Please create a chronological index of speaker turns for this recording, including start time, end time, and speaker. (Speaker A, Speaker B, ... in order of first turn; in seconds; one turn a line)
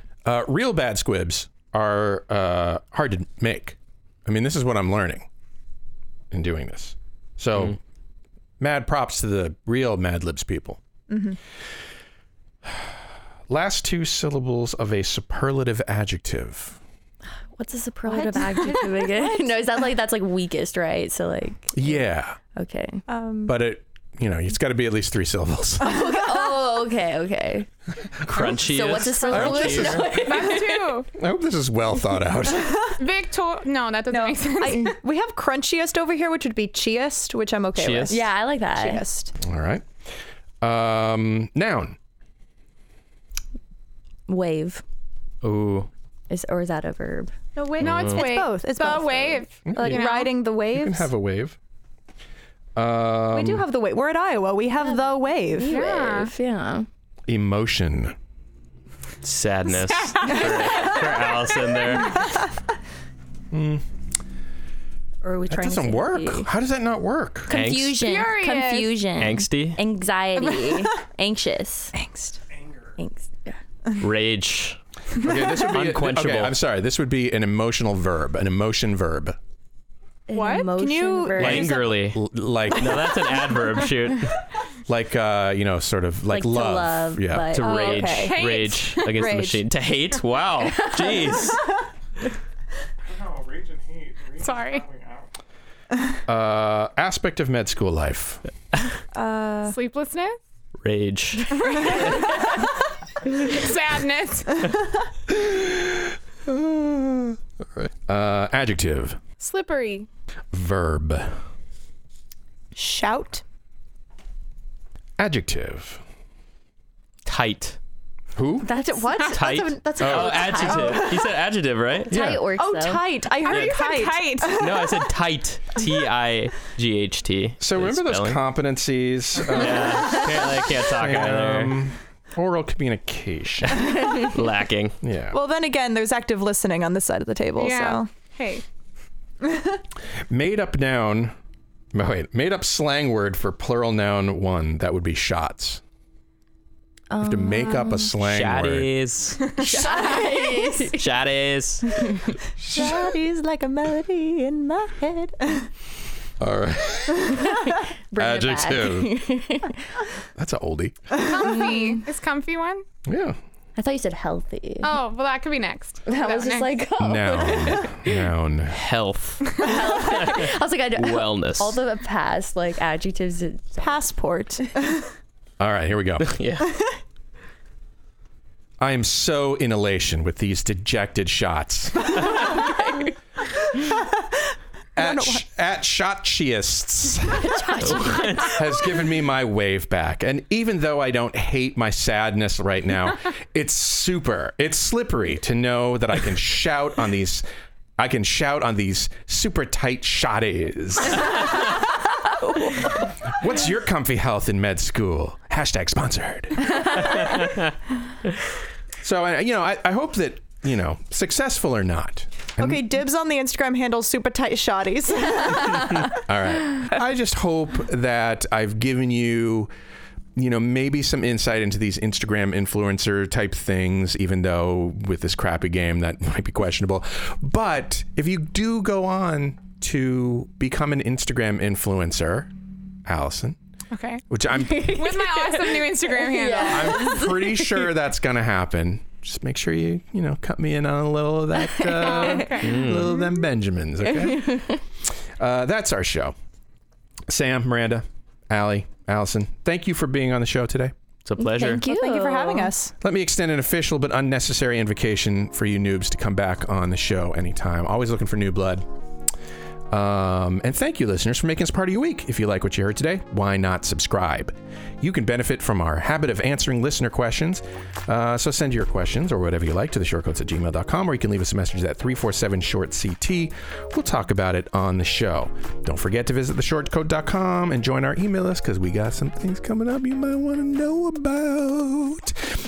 Speaker A: 0.2-5.3
Speaker A: 6.3-7.8
Speaker A: 8.6-10.8
Speaker B: 11.1-11.4
Speaker A: 13.5-16.8
Speaker C: 17.6-22.0
Speaker B: 18.1-19.8
Speaker A: 21.7-22.4
Speaker C: 22.6-23.0
Speaker B: 23.1-23.6
Speaker A: 23.5-26.0
Speaker C: 25.8-27.7
Speaker D: 28.3-30.1
Speaker A: 28.3-28.6
Speaker C: 28.5-31.0
Speaker A: 29.3-30.4
Speaker E: 30.2-31.1
Speaker A: 31.1-32.9
Speaker E: 33.0-34.9
Speaker B: 34.1-39.3
Speaker D: 37.8-38.2
Speaker C: 38.1-39.0
Speaker A: 39.4-39.9
Speaker A: 40.6-42.0
Speaker C: 44.3-44.8
Speaker D: 45.4-45.9
Speaker C: 46.3-47.3
Speaker B: 47.6-51.1
Speaker E: 47.6-50.3
Speaker D: 47.8-48.3
Speaker A: 49.7-51.6
Speaker A: 52.8-53.7
Speaker B: 53.3-55.7
Speaker C: 54.9-56.9
Speaker E: 55.7-56.3
Speaker A: 57.3-58.1
Speaker D: 59.2-62.3
Speaker E: 59.9-61.0
Speaker B: 60.6-60.9
Speaker A: 63.5-63.8
Speaker C: 65.2-66.5
Speaker A: 65.5-67.5
Speaker C: 67.5-71.9
Speaker D: 67.5-68.0
Speaker E: 68.0-69.0
Speaker D: 69.2-69.8
Speaker B: 72.0-72.4
Speaker C: 73.0-73.6
Speaker D: 74.0-74.8
Speaker A: 75.2-79.4
Speaker D: 75.7-76.5
Speaker C: 80.3-81.8
Speaker B: 80.3-81.9
Speaker D: 81.3-84.3
Speaker A: 81.4-83.2
Speaker A: 84.9-87.5
Speaker C: 86.3-88.0
Speaker D: 87.5-91.6
Speaker B: 87.6-88.6
Speaker E: 88.1-89.3
Speaker B: 89.1-89.6
Speaker C: 90.7-91.2
Speaker E: 94.3-95.0
Speaker A: 96.3-98.4
Speaker B: 99.1-99.8
Speaker E: 99.7-100.4
Speaker D: 100.8-102.1
Speaker E: 101.6-102.4
Speaker E: 103.4-104.7
Speaker A: 105.3-109.2
Speaker E: 109.4-110.1
Speaker A: 110.5-111.4
Speaker B: 112.8-113.4
Speaker A: 115.2-116.0
Speaker D: 117.2-117.8
Speaker A: 118.4-118.7
Speaker C: 118.6-121.1
Speaker B: 118.7-121.1
Speaker D: 119.3-122.1
Speaker A: 120.0-121.0
Speaker C: 122.1-123.3
Speaker A: 122.1-122.5
Speaker B: 122.6-125.1
Speaker E: 123.4-124.6
Speaker D: 123.5-123.8
Speaker D: 124.5-128.4
Speaker A: 127.6-134.0
Speaker D: 129.5-131.7
Speaker D: 133.8-135.0
Speaker A: 135.0-135.4
Speaker B: 135.3-138.1
Speaker E: 137.6-138.6
Speaker A: 140.3-141.3
Speaker A: 141.9-145.8
Speaker C: 147.1-148.2
Speaker A: 147.2-148.9
Speaker D: 148.2-149.5
Speaker C: 149.6-151.1
Speaker B: 149.8-150.7
Speaker D: 150.9-152.0
Speaker A: 152.6-153.1
Speaker B: 152.7-155.7
Speaker A: 156.4-157.6
Speaker C: 157.3-159.8
Speaker A: 158.2-159.3
Speaker A: 160.4-161.0
Speaker E: 161.2-162.8
Speaker A: 163.1-163.4
Speaker C: 163.8-165.0
Speaker E: 164.8-166.8
Speaker C: 166.1-168.3
Speaker A: 167.0-168.8
Speaker D: 168.7-171.8
Speaker C: 169.6-174.1
Speaker B: 173.8-175.1
Speaker A: 175.6-176.4
Speaker D: 176.2-176.7
Speaker A: 178.8-182.2
Speaker C: 182.4-183.1
Speaker A: 185.0-187.5
Speaker B: 185.0-185.4
Speaker C: 187.3-188.5
Speaker D: 187.8-188.6
Speaker A: 188.4-197.4
Speaker A: 198.0-201.4
Speaker A: 203.4-207.1
Speaker A: 209.0-212.8
Speaker B: 212.6-216.1
Speaker A: 216.2-219.7
Speaker A: 220.4-232.5
Speaker A: 233.1-233.6
Speaker E: 233.9-234.2
Speaker A: 234.3-235.0
Speaker C: 234.6-237.9
Speaker E: 234.8-237.2
Speaker A: 236.7-244.8
Speaker C: 241.6-242.5
Speaker E: 242.0-242.9
Speaker D: 242.6-243.1
Speaker C: 244.0-244.8
Speaker A: 245.4-246.3
Speaker A: 247.3-250.9
Speaker D: 251.2-251.8
Speaker C: 251.4-252.8
Speaker B: 251.7-252.9
Speaker A: 253.0-258.9
Speaker A: 259.9-282.4